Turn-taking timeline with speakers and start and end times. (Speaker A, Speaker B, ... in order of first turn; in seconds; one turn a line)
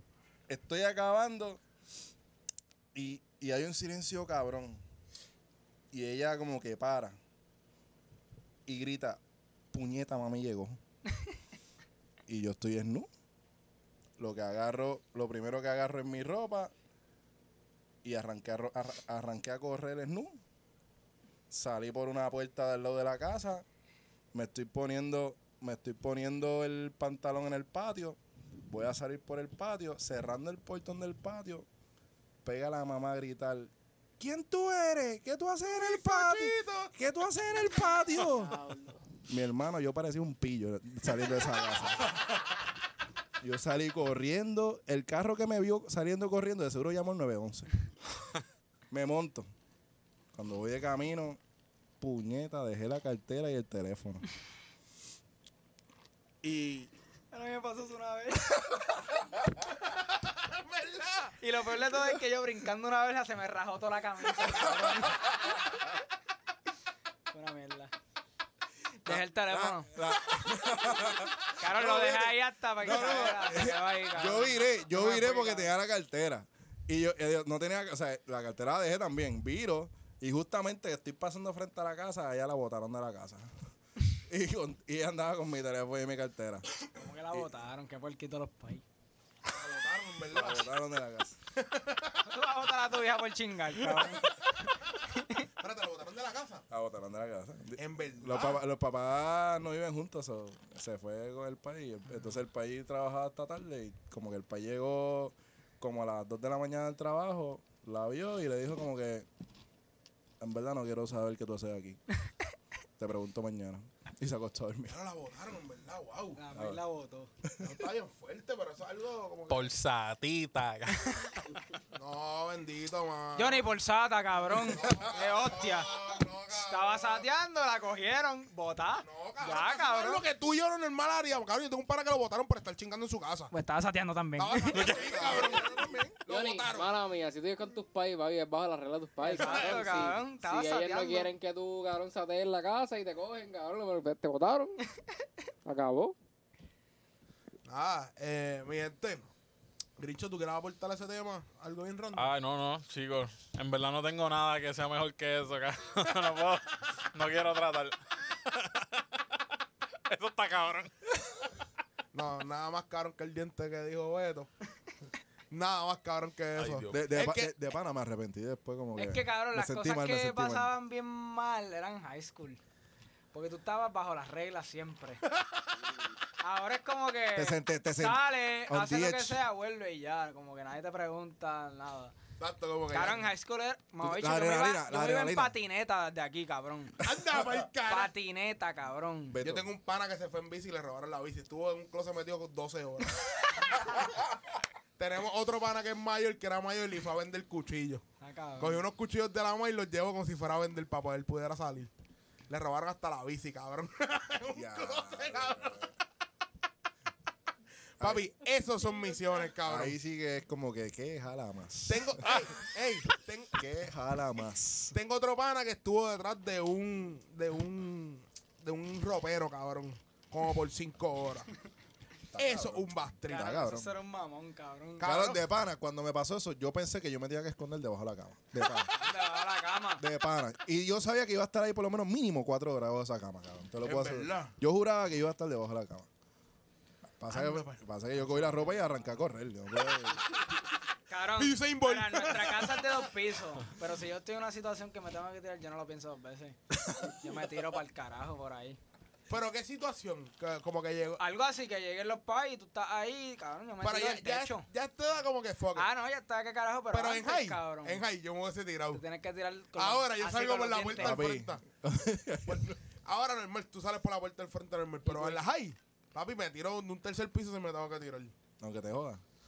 Speaker A: 0.5-1.6
Speaker A: 2.9-4.8
Speaker A: 5.9-7.2
Speaker A: 8.7-9.2
Speaker A: 9.7-10.8
Speaker A: 12.3-13.1
Speaker A: 14.2-16.7
Speaker A: 18.0-20.4
Speaker A: 21.5-23.6
Speaker A: 24.3-31.6
Speaker A: 32.4-38.6
Speaker B: 35.7-36.9
Speaker C: 38.2-39.0
Speaker A: 39.3-42.1
Speaker A: 43.4-47.7
Speaker A: 48.9-49.5
Speaker A: 50.3-51.4
Speaker A: 52.0-54.2
Speaker A: 56.4-56.9
Speaker C: 57.3-58.7
Speaker B: 60.3-61.4
Speaker C: 61.4-65.5
Speaker C: 67.3-67.9
Speaker C: 69.0-69.9
Speaker A: 69.0-83.5
Speaker C: 71.6-75.7
Speaker A: 84.3-86.6
Speaker C: 87.0-88.8
Speaker B: 89.5-90.7
Speaker A: 90.3-91.4
Speaker B: 91.6-92.2
Speaker C: 92.2-94.4
Speaker C: 95.2-95.4
Speaker B: 95.6-96.6
Speaker A: 96.7-109.3
Speaker B: 97.8-98.6
Speaker A: 110.4-112.0
Speaker A: 113.0-115.0
Speaker B: 114.9-116.4
Speaker C: 116.4-117.3
Speaker A: 116.5-116.8
Speaker B: 117.6-119.7
Speaker D: 119.5-121.3
Speaker B: 121.9-123.7
Speaker C: 123.4-125.9
Speaker B: 124.6-127.2
Speaker C: 126.6-130.2
Speaker B: 129.0-133.5
Speaker C: 133.5-134.9
Speaker B: 134.4-136.9
Speaker A: 134.7-136.2
Speaker E: 136.2-144.8
Speaker C: 139.2-141.3
Speaker B: 139.4-140.1
Speaker E: 145.7-146.2
Speaker B: 147.7-149.3
Speaker B: 150.0-152.3
Speaker D: 152.1-159.0
Speaker D: 160.1-160.9
Speaker B: 162.1-164.5
Speaker B: 165.5-167.5
Speaker D: 166.6-167.0
Speaker A: 166.9-170.7
Speaker C: 168.9-172.6
Speaker C: 173.3-175.2
Speaker C: 176.4-182.2
Speaker A: 177.3-179.4
Speaker B: 182.4-183.3
Speaker C: 182.9-187.0
Speaker A: 184.0-185.5
Speaker B: 187.0-188.1
Speaker C: 187.8-189.4
Speaker A: 189.3-189.7
Speaker B: 189.4-194.1
Speaker B: 195.0-198.0
Speaker C: 198.2-198.8
Speaker B: 198.6-201.9
Speaker B: 202.5-205.9
Speaker A: 204.5-205.9
Speaker B: 208.0-209.9
Speaker A: 208.0-208.3
Speaker A: 209.6-212.4
Speaker B: 211.9-213.9
Speaker A: 213.5-214.9
Speaker B: 214.9-221.5
Speaker A: 222.3-223.9
Speaker B: 222.4-223.6
Speaker C: 223.3-225.1
Speaker B: 225.0-225.4
Speaker A: 225.0-228.9
Speaker C: 228.9-230.0
Speaker A: 230.0-236.1
Speaker B: 233.8-234.5
Speaker A: 237.2-240.3
Speaker B: 237.3-237.8
Speaker C: 241.1-246.6
Speaker B: 241.4-243.0
Speaker C: 247.1-248.8
Speaker B: 249.3-251.2
Speaker C: 251.2-254.7
Speaker B: 253.8-255.9
Speaker C: 255.7-258.1
Speaker B: 256.9-259.0
Speaker C: 258.9-261.2
Speaker B: 259.8-261.6
Speaker A: 261.0-262.8
Speaker B: 262.5-268.3
Speaker C: 265.0-265.4
Speaker A: 268.6-269.2